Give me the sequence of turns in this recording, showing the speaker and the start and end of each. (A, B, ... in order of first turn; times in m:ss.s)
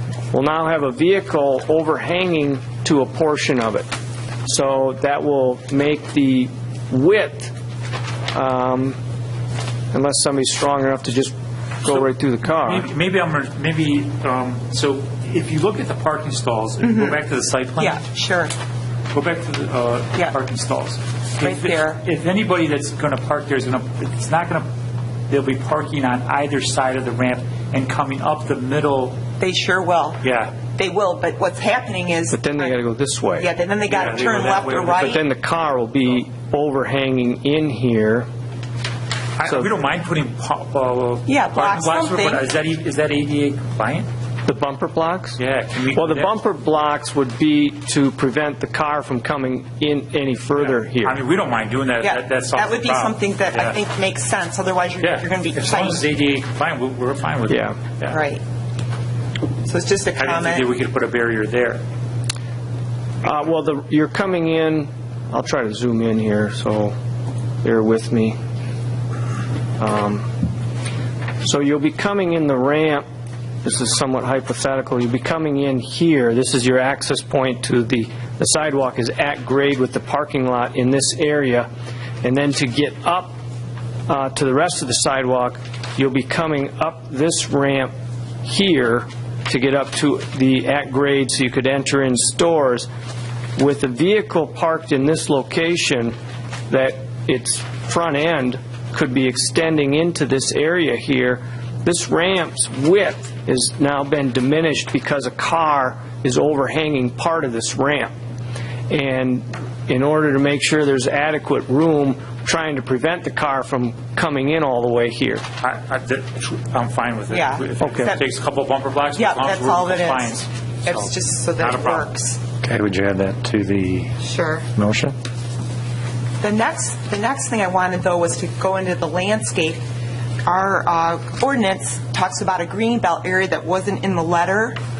0:00.3-0:03.9 A
0:04.4-0:07.5 A
0:08.3-0:09.0 A
0:09.9-0:12.9 A
0:11.8-0:18.0 B
0:16.8-0:17.2 C
0:17.8-0:18.5 C
0:19.1-0:24.7 B
0:21.4-0:22.0 C
0:25.3-0:29.2 B
0:29.4-0:32.8 C
0:30.2-0:30.5 B
0:32.3-0:33.5 A
0:33.4-0:35.2 C
0:33.9-0:35.1 B
0:34.9-0:38.3 A
0:39.4-0:44.1 B
0:41.3-0:42.4 C
0:44.4-0:45.4 A
0:45.4-0:46.3 B
0:45.9-0:51.2 A
0:50.9-0:53.8 B
0:52.0-0:56.0 C
0:55.0-0:58.2 B
0:57.5-0:57.8 A
0:58.1-0:58.4 C
0:59.6-1:00.6 C
1:00.2-1:01.8 B
1:03.2-1:06.9 A
1:07.6-1:08.4 A
1:09.8-1:10.3 A
1:11.4-1:13.0 A
1:13.6-1:21.7 A
1:22.2-1:23.4 A
1:24.1-1:27.9 A
1:28.4-1:32.9 A
1:33.6-1:36.1 A
1:36.7-1:48.1 A
1:48.9-1:55.4 A
1:55.6-2:02.1 B
1:57.3-1:58.2 C
1:57.8-1:58.1 A
1:59.1-2:02.4 C
2:02.6-2:04.2 D
2:04.2-2:04.6 C
2:04.8-2:05.1 D
2:06.4-2:09.8 C
2:10.4-2:14.8 C